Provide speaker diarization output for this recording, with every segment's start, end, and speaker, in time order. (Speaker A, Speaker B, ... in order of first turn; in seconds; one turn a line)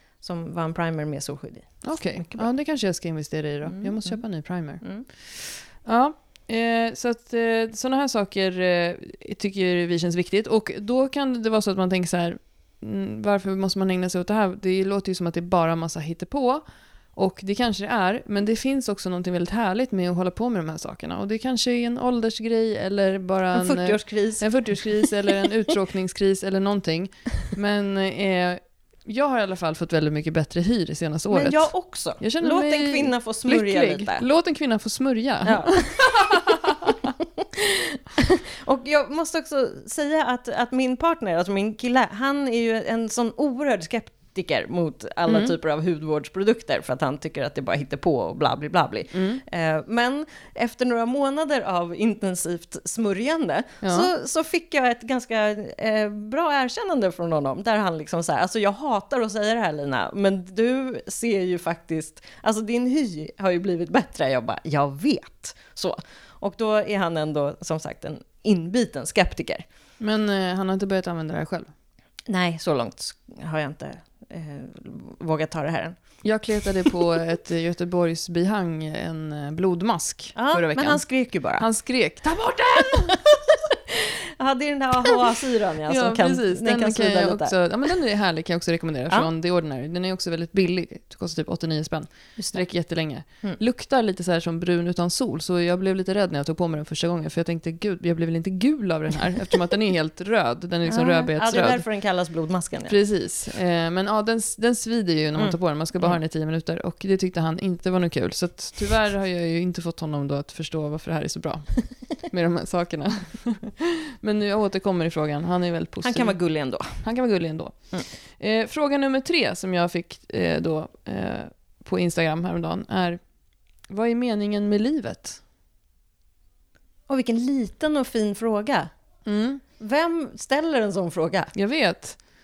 Speaker A: 0.2-2.5
Speaker B: 1.8-37.1
Speaker A: 3.6-4.2
Speaker A: 4.8-5.1
Speaker A: 23.5-25.1
Speaker A: 31.3-34.2
Speaker A: 35.4-69.6
Speaker B: 45.3-45.5
Speaker B: 49.1-49.4
Speaker B: 53.8-54.1
Speaker B: 70.0-71.7
Speaker A: 72.3-76.0
Speaker B: 76.2-81.0
Speaker A: 80.3-81.6
Speaker B: 81.5-83.2
Speaker A: 82.9-87.5
Speaker B: 85.9-101.8
Speaker A: 92.4-92.6
Speaker A: 93.2-93.6
Speaker A: 100.9-103.0
Speaker B: 102.9-116.4
Speaker A: 105.4-106.2
Speaker A: 116.0-117.0
Speaker B: 117.0-123.2
Speaker B: 123.9-125.4
Speaker A: 127.1-128.9
Speaker B: 129.2-129.6
Speaker A: 129.8-131.5
Speaker B: 131.5-132.2